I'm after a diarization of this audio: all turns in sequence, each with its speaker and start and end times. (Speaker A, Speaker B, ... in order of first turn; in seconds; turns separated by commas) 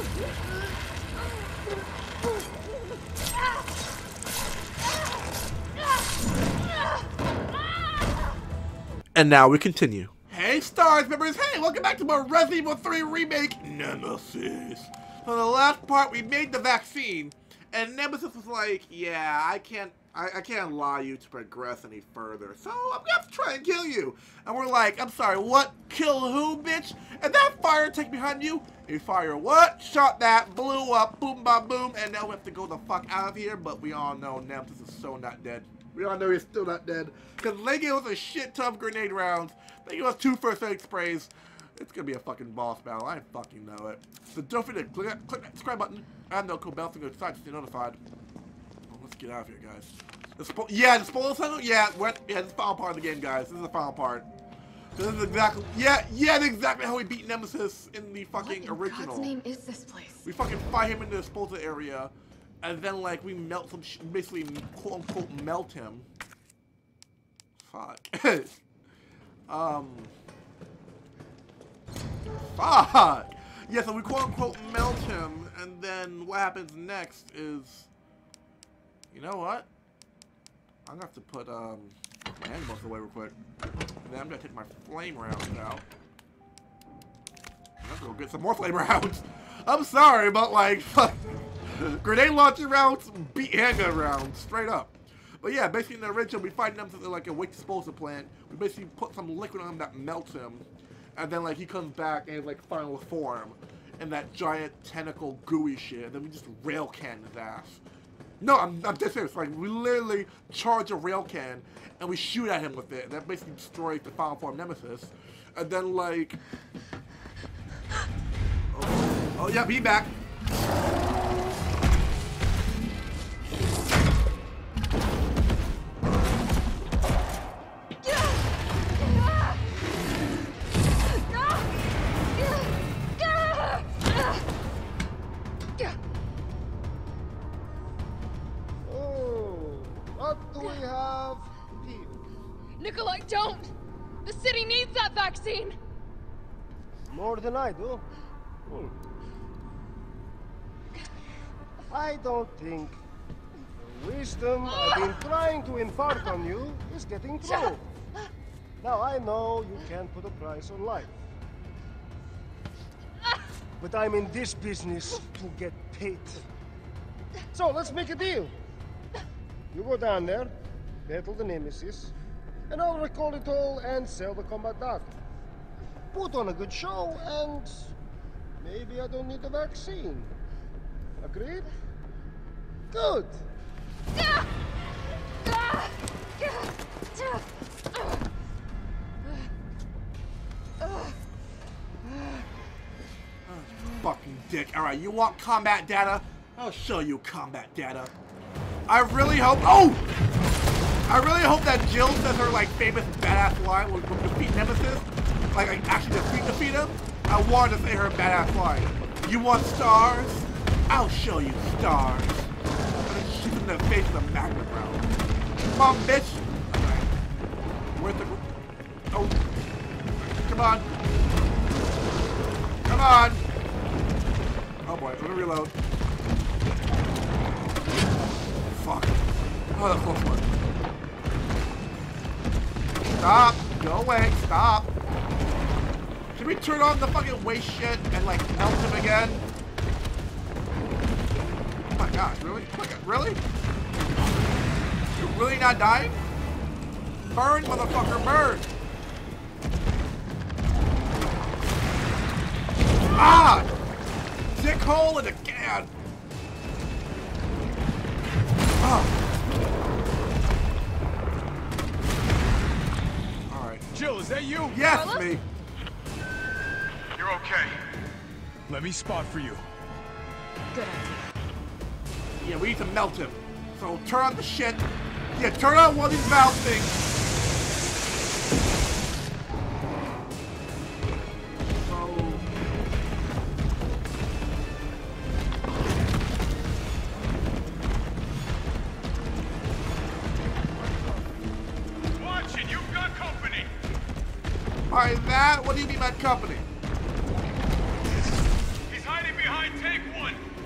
Speaker A: 9.2-48.0, Speaker A: 48.9-54.3, Speaker A: 55.0-59.4, Speaker B: 58.4-60.3, Speaker A: 60.2-66.1, Speaker A: 67.6-68.6, Speaker A: 69.5-70.1, Speaker A: 72.5-77.9, Speaker A: 79.1-79.7, Speaker A: 80.9-83.4, Speaker A: 84.0-85.8, Speaker A: 87.8-107.8, Speaker A: 108.4-116.4, Speaker A: 118.7-120.1, Speaker B: 128.1-128.4, Speaker B: 129.0-129.6, Speaker B: 131.1-131.7, Speaker B: 132.4-134.4, Speaker C: 138.8-142.2, Speaker B: 142.8-143.7, Speaker B: 144.2-145.8, Speaker C: 147.1-148.1, Speaker C: 148.7-149.0, Speaker C: 151.9-153.0, Speaker C: 153.8-157.8, Speaker B: 157.5-157.7, Speaker C: 158.8-161.2, Speaker C: 163.8-166.4, Speaker C: 167.5-168.6, Speaker C: 169.7-170.5, Speaker C: 171.1-172.1, Speaker C: 172.7-175.2, Speaker C: 176.1-177.9, Speaker C: 178.6-180.3, Speaker C: 181.2-181.7, Speaker C: 182.9-183.4, Speaker B: 184.2-184.5, Speaker B: 185.4-187.4, Speaker A: 193.5-198.1, Speaker A: 198.9-200.0, Speaker A: 201.1-212.5, Speaker A: 213.1-215.1, Speaker A: 215.7-217.1, Speaker A: 218.0-218.4, Speaker A: 219.1-219.4, Speaker A: 220.2-220.9, Speaker A: 222.9-223.4, Speaker A: 224.9-225.7, Speaker A: 228.7-229.2, Speaker A: 229.7-230.5, Speaker A: 233.2-234.9, Speaker A: 236.3-239.4, Speaker A: 241.9-243.4, Speaker A: 245.2-246.2, Speaker A: 247.2-248.7, Speaker A: 253.1-253.7, Speaker A: 254.6-255.9, Speaker A: 258.8-259.1, Speaker A: 263.5-263.9, Speaker D: 263.9-264.8, Speaker A: 264.7-265.4, Speaker B: 264.8-265.3, Speaker D: 267.1-267.8, Speaker D: 268.7-269.6, Speaker B: 270.7-271.3, Speaker A: 272.4-277.0, Speaker A: 281.7-282.5, Speaker A: 290.5-291.5, Speaker D: 292.1-293.7, Speaker A: 294.9-296.7, Speaker D: 298.9-300.4